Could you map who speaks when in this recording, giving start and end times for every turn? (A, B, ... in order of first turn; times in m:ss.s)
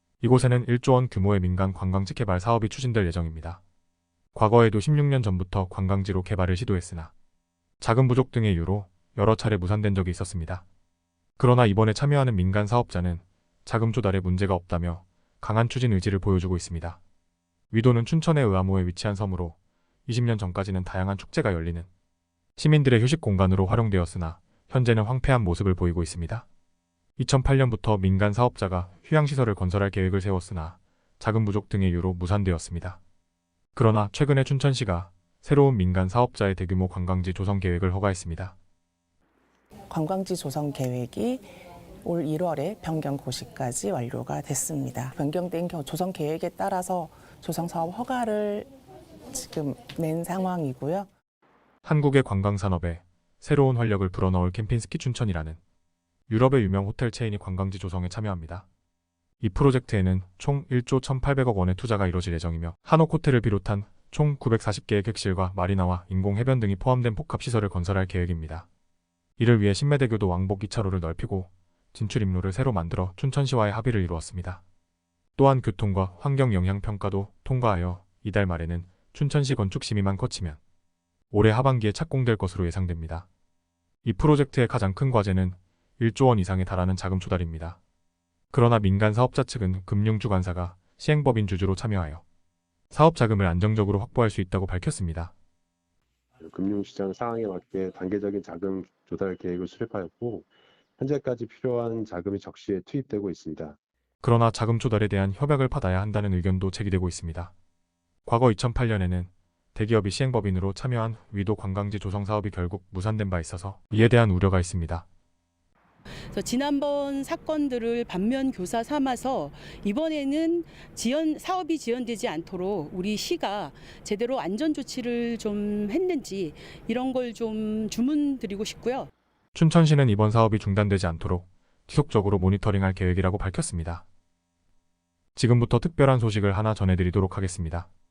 0:00.2-0:03.6 A
0:04.3-0:07.1 A
0:07.8-0:10.6 A
0:11.4-0:17.0 A
0:17.7-0:21.9 A
0:22.6-0:26.5 A
0:27.2-0:33.0 A
0:33.7-0:38.6 A
0:39.9-0:41.5 B
0:42.0-0:48.7 B
0:49.3-0:51.1 B
0:51.8-0:55.6 A
0:56.3-0:58.6 A
0:59.4-1:08.7 A
1:09.4-1:14.6 A
1:15.4-1:20.6 A
1:21.3-1:23.3 A
1:24.0-1:27.8 A
1:28.5-1:32.2 A
1:32.9-1:35.3 A
1:36.4-1:43.8 C
1:44.2-1:47.5 A
1:48.2-1:55.0 A
1:56.3-2:09.1 D
2:09.5-2:14.0 A
2:15.4-2:17.9 A